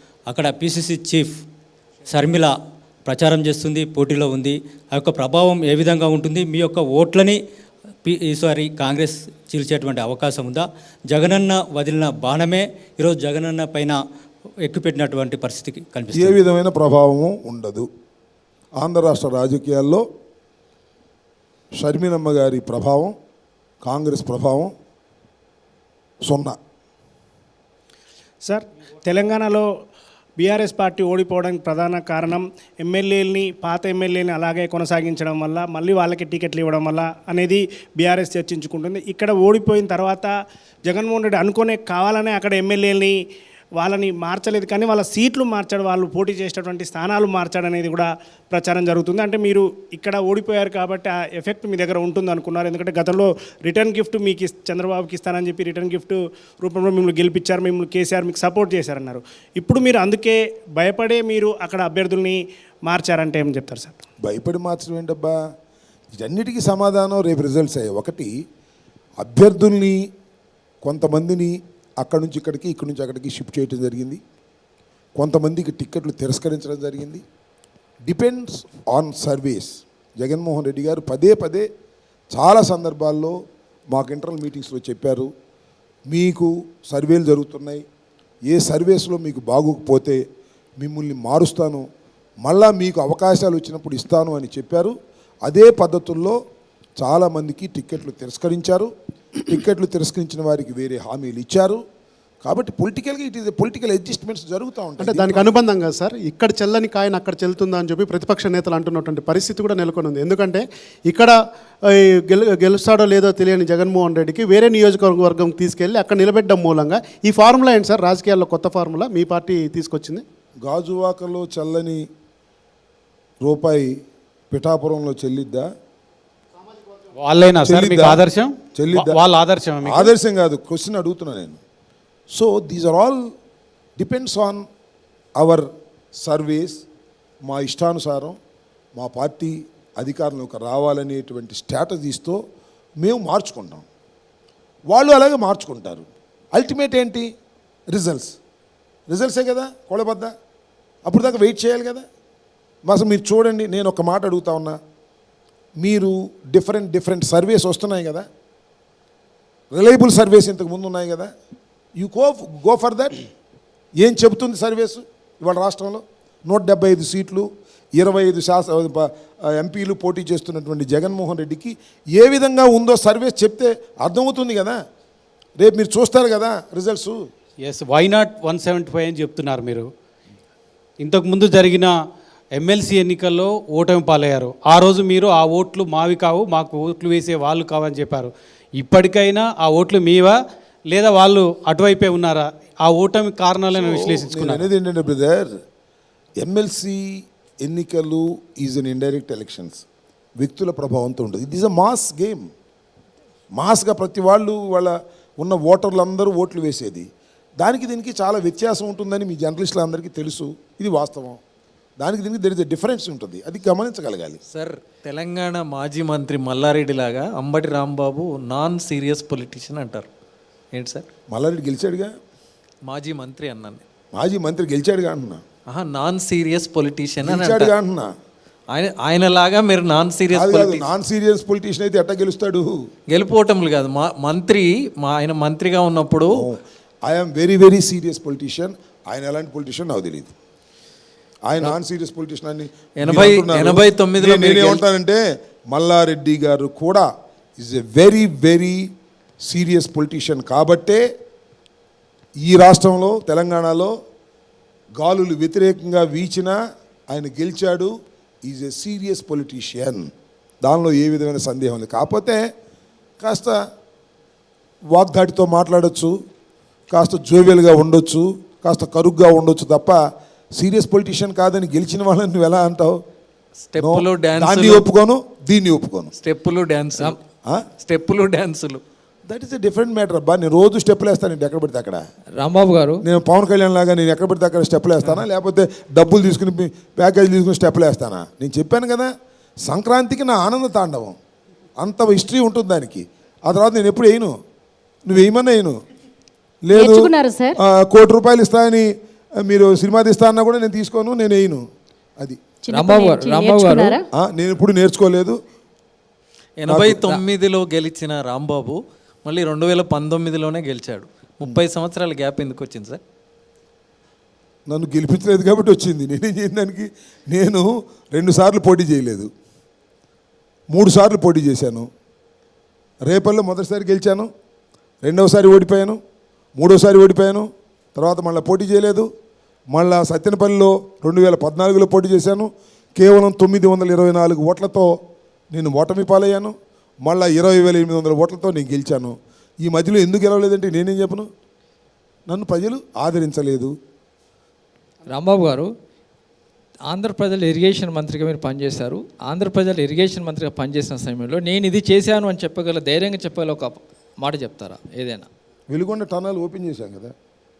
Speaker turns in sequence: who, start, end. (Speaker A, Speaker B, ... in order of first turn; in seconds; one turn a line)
Speaker A: 0.3-1.3
Speaker A: 2.1-2.5
Speaker A: 3.0-7.4
Speaker A: 8.0-14.0
Speaker A: 14.6-16.4
Speaker B: 16.1-17.9
Speaker B: 18.8-20.0
Speaker B: 21.8-23.1
Speaker B: 23.8-24.7
Speaker B: 26.2-26.6
Speaker C: 28.4-29.7
Speaker C: 30.4-40.3
Speaker C: 40.9-43.2
Speaker C: 43.8-64.0
Speaker B: 64.2-65.4
Speaker B: 66.2-68.3
Speaker B: 69.2-70.0
Speaker B: 70.8-74.2
Speaker B: 75.2-77.2
Speaker B: 78.1-81.7
Speaker B: 82.3-83.4
Speaker B: 83.9-85.3
Speaker B: 86.1-87.8
Speaker B: 88.5-90.2
Speaker B: 90.8-91.8
Speaker B: 92.4-94.9
Speaker B: 95.5-96.4
Speaker B: 97.0-98.9
Speaker B: 99.5-101.8
Speaker B: 102.4-105.5
Speaker D: 105.0-111.4
Speaker D: 111.9-120.2
Speaker B: 120.6-122.0
Speaker B: 123.4-123.9
Speaker B: 124.5-125.7
Speaker E: 127.2-130.1
Speaker B: 127.6-128.2
Speaker B: 128.7-129.2
Speaker B: 129.8-131.6
Speaker B: 132.3-133.2
Speaker B: 134.0-134.6
Speaker B: 135.4-135.6
Speaker B: 136.2-136.8
Speaker B: 137.4-138.3
Speaker B: 139.0-142.4
Speaker B: 143.0-143.8
Speaker B: 144.9-147.3
Speaker B: 147.9-148.4
Speaker B: 149.1-150.3
Speaker B: 151.1-152.0
Speaker B: 152.9-154.8
Speaker B: 155.8-158.3
Speaker B: 159.7-161.3
Speaker B: 162.0-163.2
Speaker B: 164.0-167.5
Speaker B: 168.0-174.8
Speaker B: 175.6-177.2
Speaker E: 177.6-179.9
Speaker E: 181.0-181.9
Speaker E: 182.6-190.4
Speaker E: 190.9-194.7
Speaker B: 193.7-195.5
Speaker B: 196.4-199.8
Speaker B: 200.4-202.4
Speaker B: 203.6-207.1
Speaker B: 207.6-211.4
Speaker B: 212.0-214.4
Speaker F: 214.5-220.1
Speaker F: 220.7-221.1
Speaker B: 221.3-222.1
Speaker F: 222.9-223.8
Speaker B: 224.1-225.4
Speaker F: 225.7-227.7
Speaker B: 227.2-228.1
Speaker F: 228.7-230.9
Speaker B: 230.3-232.8
Speaker F: 233.1-236.5
Speaker B: 236.3-240.3
Speaker B: 241.5-247.1
Speaker F: 243.0-244.8
Speaker B: 247.6-248.8
Speaker B: 249.4-251.0
Speaker B: 252.4-253.9
Speaker B: 255.0-256.6
Speaker B: 257.1-257.9
Speaker B: 258.4-260.1
Speaker B: 260.6-262.4
Speaker B: 263.2-263.6
Speaker B: 264.9-266.1
Speaker B: 266.9-270.0
Speaker B: 270.6-273.0
Speaker F: 273.6-274.9
Speaker B: 273.8-276.1
Speaker F: 276.2-277.2
Speaker F: 277.8-278.8
Speaker B: 279.3-282.0
Speaker G: 282.4-283.0
Speaker B: 283.0-289.1
Speaker B: 289.7-291.1
Speaker B: 291.8-294.3
Speaker B: 295.1-295.7
Speaker B: 296.6-298.9
Speaker H: 296.7-297.6
Speaker B: 299.4-301.6
Speaker H: 302.6-304.1
Speaker G: 302.7-303.9
Speaker B: 304.2-305.4
Speaker F: 306.6-313.0
Speaker B: 306.7-307.1
Speaker B: 314.7-319.3
Speaker B: 320.7-321.9
Speaker B: 323.1-324.3
Speaker B: 325.0-326.0
Speaker B: 326.6-329.1
Speaker B: 329.7-334.9
Speaker B: 335.5-341.3
Speaker B: 342.3-343.7
Speaker G: 345.1-345.7
Speaker G: 346.9-355.3
Speaker B: 355.7-357.1